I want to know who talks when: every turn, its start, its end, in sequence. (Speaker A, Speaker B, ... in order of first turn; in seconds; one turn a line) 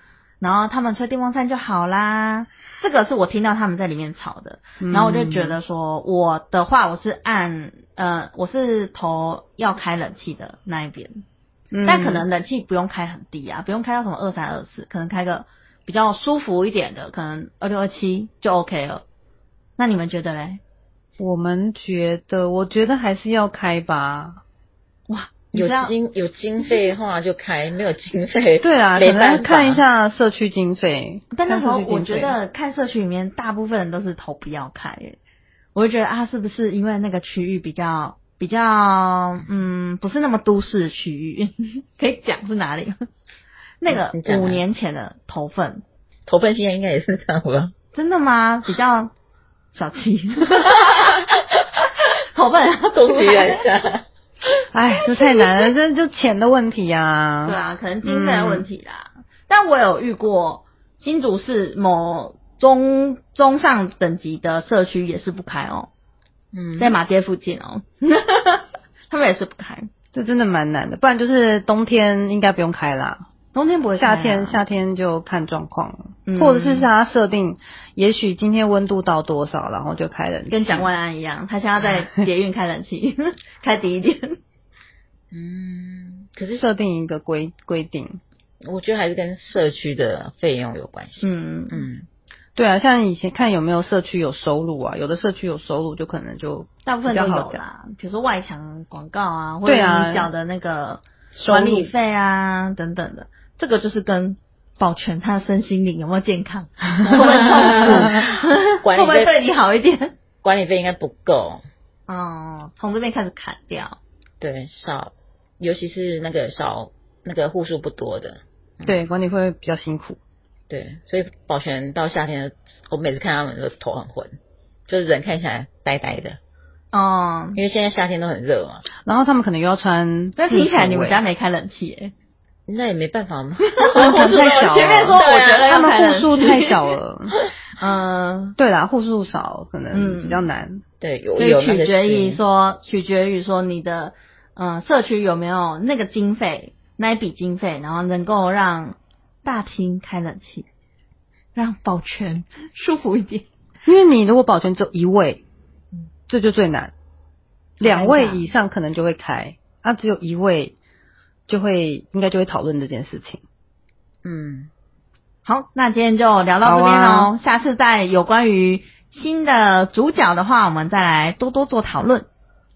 Speaker A: 0.4-11.2
Speaker B: 4.8-5.6
Speaker B: 11.7-12.2
Speaker A: 11.8-19.0
Speaker A: 19.8-20.6
Speaker B: 21.2-24.4
Speaker A: 25.1-25.9
Speaker C: 25.5-29.8
Speaker B: 28.6-32.3
Speaker A: 31.3-35.2
Speaker A: 35.7-43.0
Speaker A: 43.8-45.8
Speaker C: 43.9-44.6
Speaker C: 46.3-47.7
Speaker A: 47.9-49.1
Speaker A: 49.7-51.3
Speaker C: 50.6-51.1
Speaker A: 52.3-53.6
Speaker C: 52.9-54.0
Speaker B: 54.7-58.6
Speaker A: 57.4-65.9
Speaker C: 66.5-66.9
Speaker A: 66.8-69.9
Speaker B: 70.1-73.2
Speaker A: 73.5-74.6
Speaker B: 74.0-80.9
Speaker A: 76.2-76.9
Speaker A: 80.5-84.4
Speaker C: 85.3-86.6
Speaker B: 86.5-88.2
Speaker C: 88.6-92.0
Speaker A: 91.2-91.8
Speaker B: 92.5-97.6
Speaker A: 96.8-110.1
Speaker B: 99.7-100.3
Speaker B: 101.3-101.9
Speaker C: 107.0-109.5
Speaker C: 110.4-111.6
Speaker A: 112.1-114.0
Speaker C: 114.4-119.0
Speaker B: 118.8-120.2
Speaker C: 120.7-126.4
Speaker A: 126.9-127.6
Speaker C: 127.5-128.8
Speaker B: 129.0-131.2
Speaker A: 130.4-132.1
Speaker C: 132.7-135.8
Speaker A: 133.8-136.9
Speaker B: 133.9-137.3
Speaker A: 137.8-138.6
Speaker B: 138.6-140.8
Speaker A: 139.9-140.4
Speaker C: 141.0-142.4
Speaker A: 141.4-150.7
Speaker A: 151.5-153.4
Speaker B: 153.8-155.4
Speaker B: 156.3-156.9
Speaker B: 157.8-160.7
Speaker A: 157.8-158.5
Speaker B: 161.5-163.4
Speaker C: 164.2-164.7
Speaker A: 165.4-172.2
Speaker B: 166.6-167.3